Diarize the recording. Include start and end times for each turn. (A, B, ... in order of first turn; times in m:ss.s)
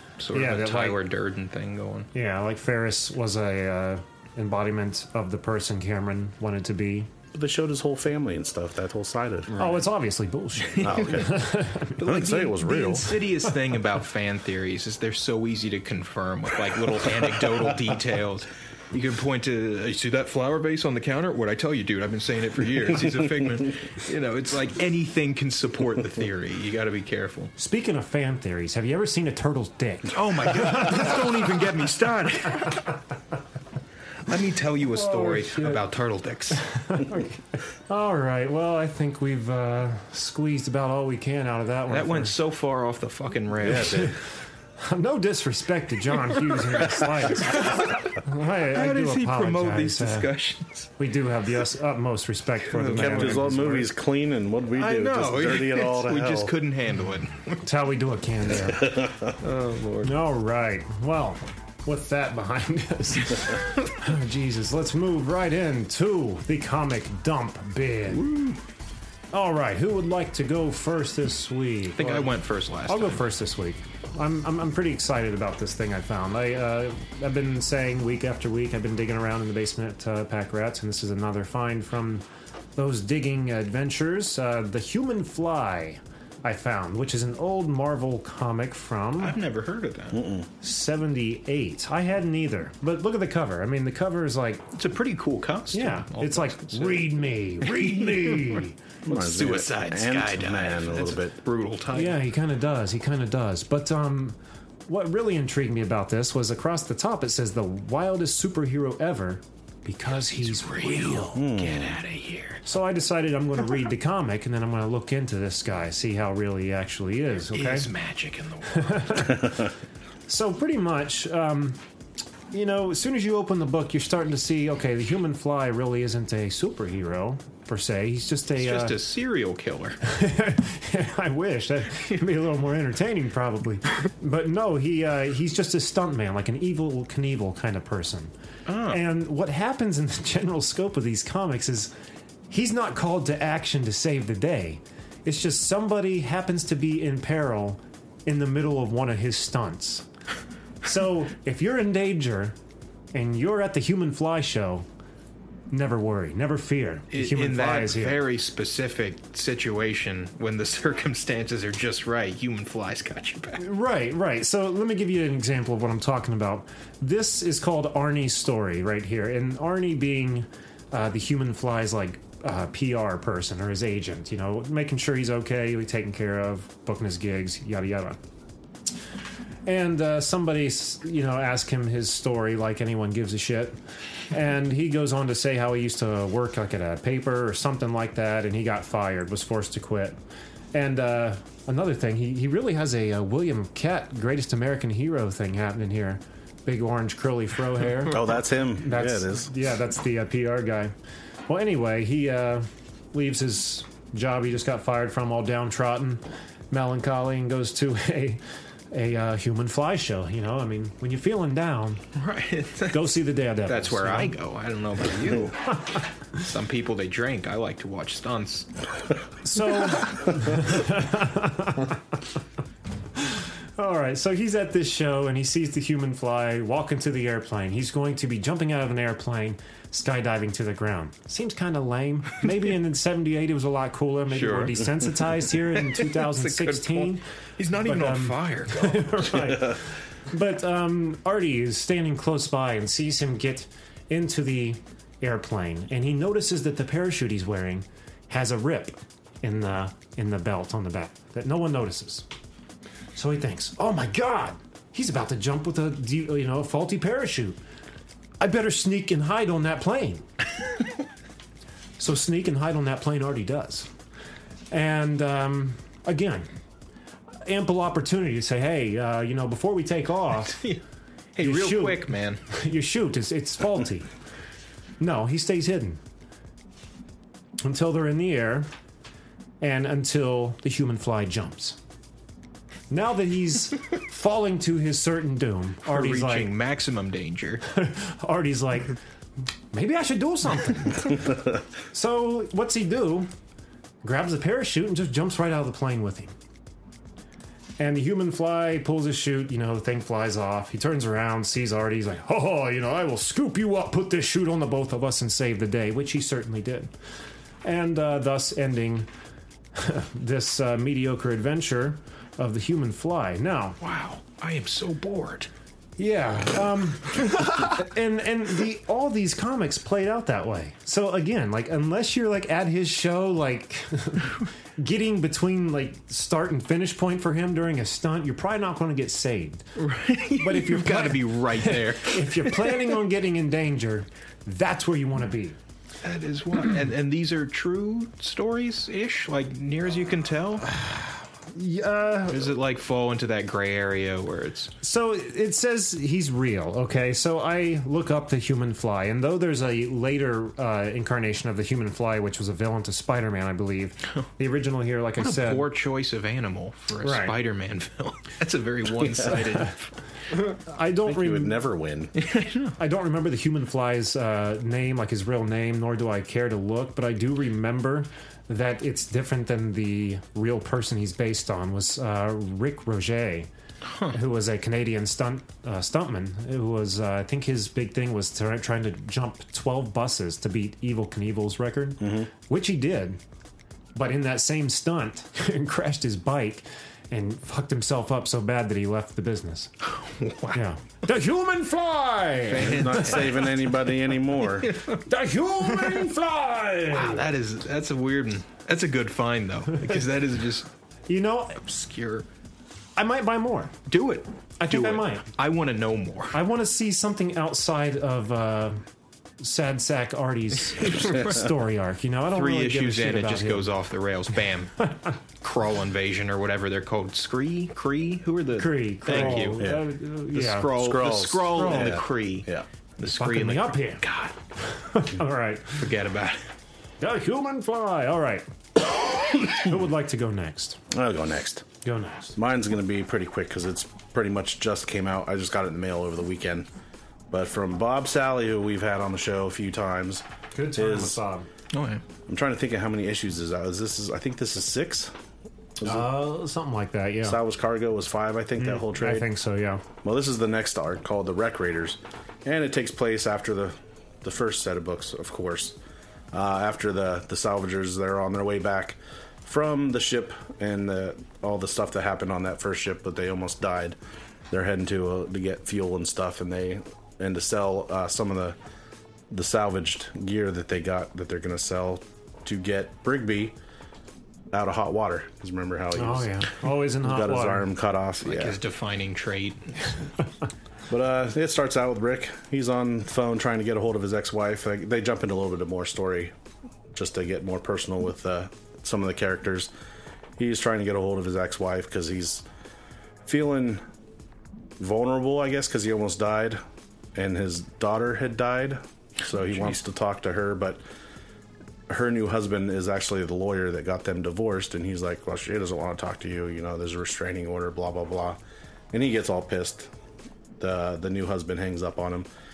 0:00.2-0:02.1 A
0:00.3-0:01.0 B
0:02.1-0:07.1 B
0:07.3-0:09.5 C
0:09.6-0:13.2 B
0:10.7-0:11.2 A
0:10.8-0:11.4 C
0:12.0-0:27.5 A
0:12.0-0:13.2 C
0:27.6-0:31.2 B
0:30.1-0:32.9 A
0:34.3-0:36.6 A
0:34.9-0:35.8 B
0:36.5-0:42.3 B
0:41.9-0:44.0 A
0:43.6-0:44.2 C
0:43.8-0:44.1 B
0:44.8-0:50.3 B
0:46.5-0:48.1 A
0:48.7-0:50.9 A
0:51.0-0:53.9 B
0:52.7-0:53.4 A
0:52.8-0:56.5 C
0:54.8-0:57.6 A
0:57.6-0:58.9 B
0:58.7-0:59.4 C
0:59.4-1:00.1 A
1:00.0-1:08.2 B
1:08.1-1:08.6 A
1:09.3-1:12.3 B
1:11.9-1:13.2 A
1:12.9-1:22.2 B
1:22.8-1:29.4 B
1:29.2-1:30.2 A
1:30.1-1:30.5 C
1:30.6-1:34.7 B
1:34.8-1:42.2 A
1:35.7-1:38.7 B
1:39.0-1:41.4 C
1:41.9-1:44.4 B
1:44.9-1:51.4 B
1:50.1-1:52.6 A
1:51.3-1:52.0 C
1:52.6-1:57.9 B
1:57.5-1:59.4 A
1:58.7-1:59.6 B
2:00.3-2:01.8 B
2:02.5-2:08.9 B
2:08.6-2:10.0 A
2:10.0-2:18.3 B
2:18.7-2:19.0 A
2:18.9-2:21.9 B
2:22.5-2:30.0 B
2:30.8-2:32.6 B
2:33.1-2:34.8 B
2:35.7-2:38.2 B
2:37.1-2:43.6 A
2:43.6-2:58.2 B
2:59.6-3:03.8 B
3:04.3-3:10.2 B
3:10.7-3:18.2 B
3:18.1-3:19.5 C
3:18.8-3:20.9 B
3:21.5-3:32.0 B
3:32.2-3:38.7 A
3:32.9-3:34.3 B
3:39.4-3:42.2 B
3:43.2-3:57.2 B
3:54.3-3:59.7 A
3:57.8-4:12.2 B
4:13.1-4:17.6 B
4:18.4-4:20.3 B
4:22.0-4:23.9 B
4:24.7-4:26.5 B
4:27.4-4:30.6 B
4:30.5-4:30.8 A
4:31.3-4:32.4 A
4:31.4-4:34.1 B
4:35.0-4:36.0 B
4:37.6-4:38.7 B
4:39.6-4:41.8 B
4:42.9-4:46.5 B
4:45.8-4:47.6 A
4:47.7-4:49.0 B
4:49.7-4:51.2 B
4:51.9-4:53.3 B
4:54.0-4:56.3 B
4:57.8-5:06.9 B
5:07.6-5:09.1 B
5:09.8-5:13.8 B
5:13.8-5:15.5 A
5:16.0-5:29.6 B
5:29.8-5:33.0 A
5:30.4-5:35.6 B
5:36.0-5:40.6 A
5:40.7-5:42.5 B
5:42.3-5:44.7 A
5:44.8-5:55.7 B
5:55.2-6:00.0 A
5:57.0-5:57.4 B
6:00.5-6:01.6 B
6:01.0-6:02.1 C
6:02.2-6:02.7 A
6:02.8-6:13.5 B
6:14.1-6:23.2 B
6:22.0-6:22.3 C
6:24.0-6:29.7 B
6:29.8-6:30.6 A
6:30.5-6:33.2 B
6:32.5-6:33.6 A
6:32.6-6:34.8 C
6:34.6-6:35.0 A
6:35.1-6:37.3 B
6:36.9-6:40.7 A
6:41.1-6:41.6 B
6:41.6-6:42.2 A
6:43.0-6:43.7 B
6:43.9-6:46.4 A
6:44.6-6:45.3 B
6:46.3-6:48.8 B
6:49.4-6:53.7 B
6:50.8-6:51.4 A
6:52.3-6:54.8 A
6:54.8-6:55.1 B
6:55.4-6:59.7 A
6:58.6-7:00.7 B
6:59.1-6:59.8 C
7:00.3-7:04.3 A
7:00.7-7:02.6 C
7:01.5-7:02.0 B
7:03.0-7:04.0 B
7:04.7-7:05.8 B
7:05.8-7:06.4 A
7:07.0-7:08.4 B
7:09.3-7:10.8 B
7:10.9-7:11.6 C
7:11.8-7:12.4 B
7:12.4-7:16.7 C
7:17.3-7:21.2 C
7:20.5-7:21.5 B
7:21.7-7:22.0 A
7:22.3-7:25.1 C
7:25.8-7:26.3 C
7:25.8-7:27.4 B
7:27.2-7:29.3 C
7:28.6-7:29.8 B
7:30.0-7:35.8 C
7:36.3-7:44.0 C
7:44.5-7:48.6 C
7:49.3-7:53.5 C
7:54.5-7:58.6 C
7:55.9-7:57.7 B
7:58.2-8:00.0 A
8:00.9-8:06.3 C
8:06.9-8:09.7 C
8:10.4-8:12.4 C
8:13.2-8:13.8 C
8:14.8-8:16.6 C
8:17.1-8:20.8 C
8:21.9-8:28.4 C
8:28.9-8:29.9 C
8:30.6-8:32.3 C